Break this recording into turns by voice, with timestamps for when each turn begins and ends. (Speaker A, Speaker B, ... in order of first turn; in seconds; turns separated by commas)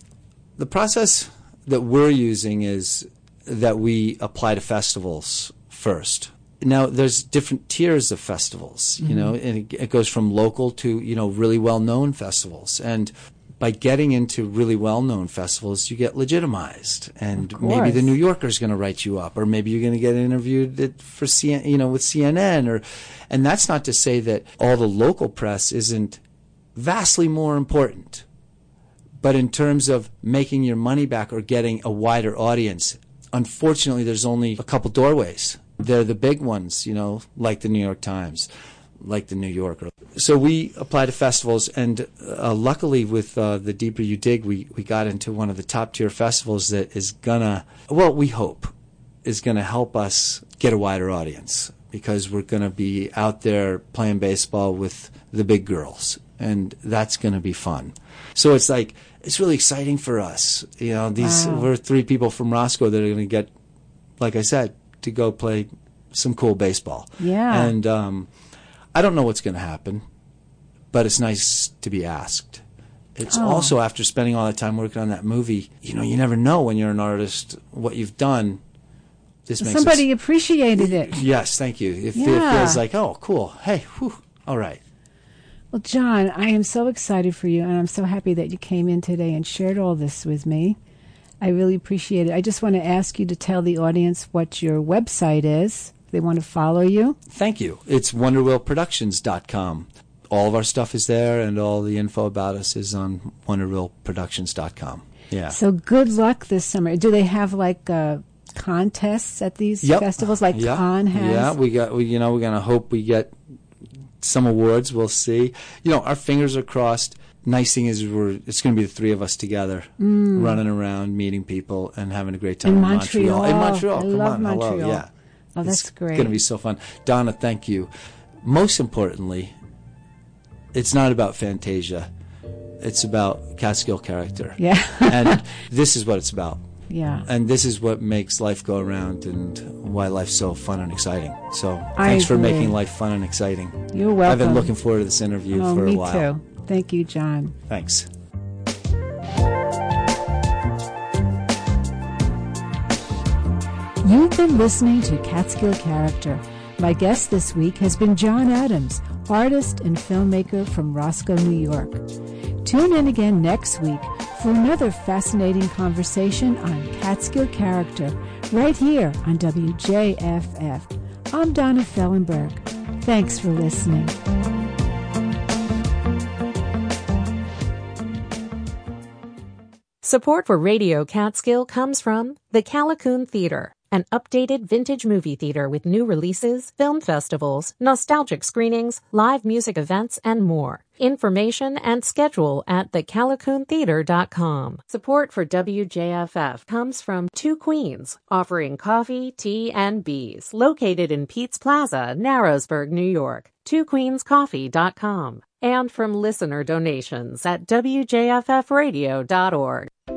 Speaker A: 0.6-26.2, Speaker B: 9.0-9.3, Speaker B: 17.4-18.1, Speaker A: 26.8-28.2, Speaker A: 29.2-38.5, Speaker A: 39.0-48.7, Speaker A: 49.2-63.5, Speaker B: 61.2-61.7, Speaker A: 64.2-68.3, Speaker B: 67.2-67.7, Speaker A: 68.9-70.0, Speaker A: 70.9-72.6, Speaker A: 73.1-78.6, Speaker B: 73.3-73.7, Speaker A: 79.4-80.0, Speaker B: 79.6-81.1, Speaker A: 80.8-84.8, Speaker B: 82.1-82.8, Speaker B: 85.7-90.8, Speaker B: 91.4-97.2, Speaker A: 97.3-105.6, Speaker B: 105.5-111.5, Speaker A: 109.8-113.4, Speaker A: 114.2-125.1, Speaker B: 120.0-120.6, Speaker B: 122.6-125.0, Speaker B: 125.6-126.4, Speaker A: 125.6-127.9, Speaker A: 128.4-129.6, Speaker A: 130.7-132.1, Speaker A: 132.8-136.6, Speaker B: 134.6-135.4, Speaker B: 136.9-137.3, Speaker A: 137.2-146.3, Speaker B: 142.0-142.8, Speaker B: 143.9-144.7, Speaker B: 145.5-147.6, Speaker A: 147.7-148.1, Speaker B: 154.0-162.1, Speaker B: 162.6-174.2, Speaker C: 180.0-209.9